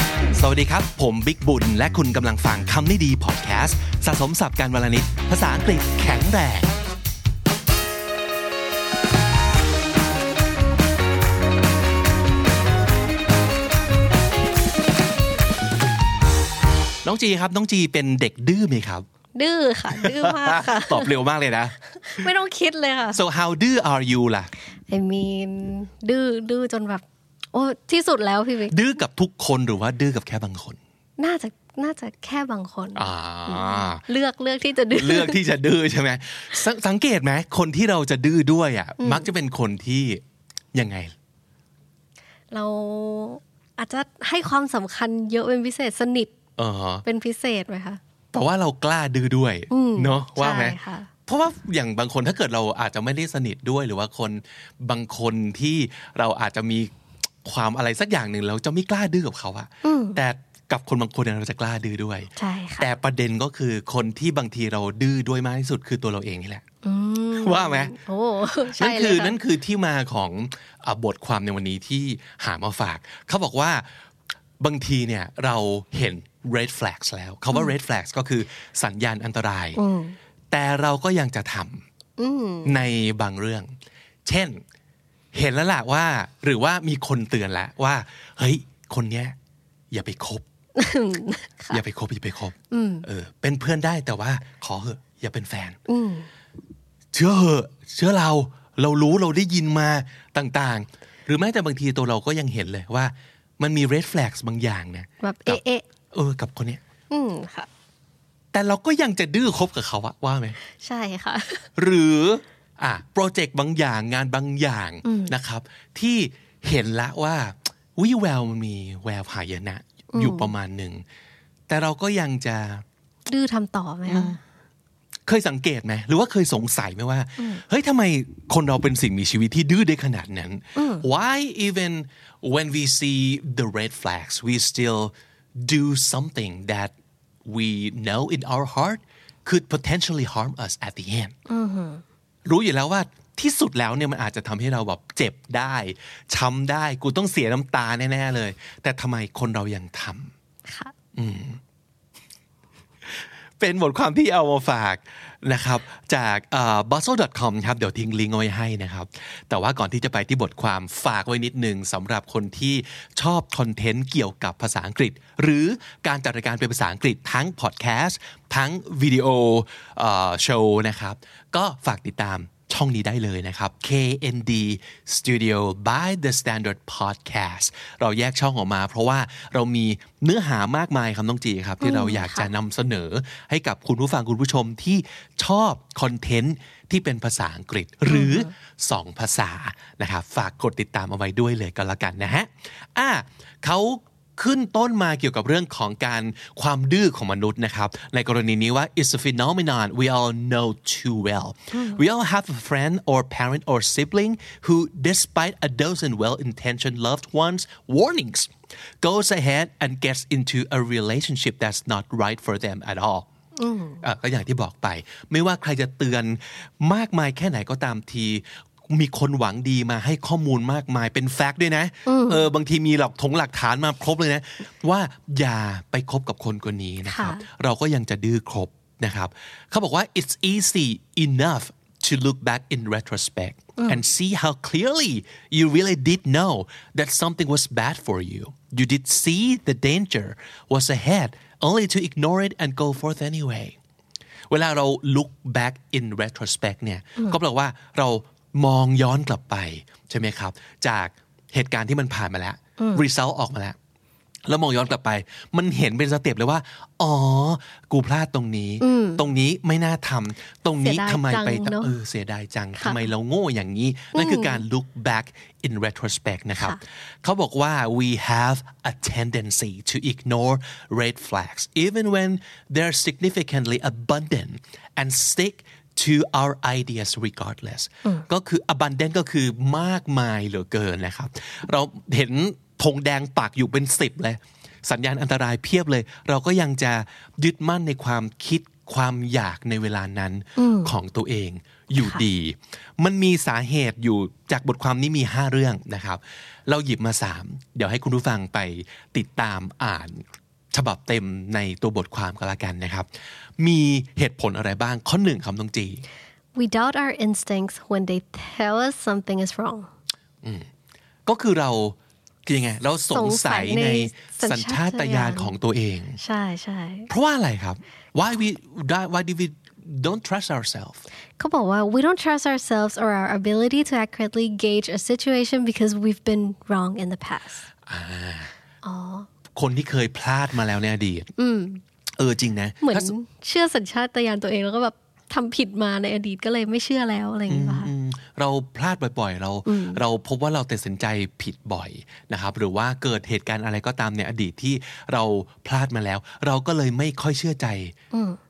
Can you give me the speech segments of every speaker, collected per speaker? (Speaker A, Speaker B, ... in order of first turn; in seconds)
Speaker A: 0.3-6.7, 17.0-19.0, 19.9-21.8, 23.1-24.5, 28.7-30.8, 33.0-34.0, 34.9-40.2, 40.7-41.1, 46.6-47.0, 48.3-56.9, 57.4-66.6, 67.3-67.9, 68.7-73.9, 74.6-79.8, 80.5-81.8, 82.6-83.7, 84.2-84.6, 85.3-89.3, 89.9-90.4, 91.7-95.8, 97.1-105.6, 106.1-106.8, 108.5-110.6, 111.8-121.0, 121.7-122.8, 124.1-124.4, 125.3-136.9, 137.4-141.3, 142.4-150.3, 151.1-151.6, 153.6-213.3, 214.0-243.8, 244.5-253.8, 254.5-306.0, 311.2-316.2, 317.1-321.1, 327.9-328.5, 329.5-331.3, 332.2-333.1, 337.5-347.9
Speaker B: 19.3-21.1, 21.9-23.2, 24.9-28.8, 31.2-35.4, 39.0-39.3, 42.5-46.3, 47.0-48.0, 49.7-51.1, 59.8-60.2, 62.4-62.9, 66.8-69.4, 79.8-80.2, 82.2-82.8, 90.8-91.8, 92.7-93.1, 95.9-96.3, 105.2-105.8, 107.1-107.7, 110.6-111.7, 115.0-115.3, 120.1-120.5, 123.3-124.4, 130.8-131.0, 141.5-142.0, 150.7-150.9, 181.8-182.5, 188.1-188.5, 201.7-202.0, 213.6-214.0, 222.1-222.4, 227.1-227.4, 252.8-253.0, 258.8-259.2, 260.8-261.9, 262.8-263.0, 264.1-264.6, 290.6-290.9, 292.0-292.2, 306.5-309.9, 313.1-315.5, 316.2-317.1, 321.4-327.6, 328.8-329.3, 331.4-331.8, 332.8-337.9, 339.7-340.0, 348.1-348.4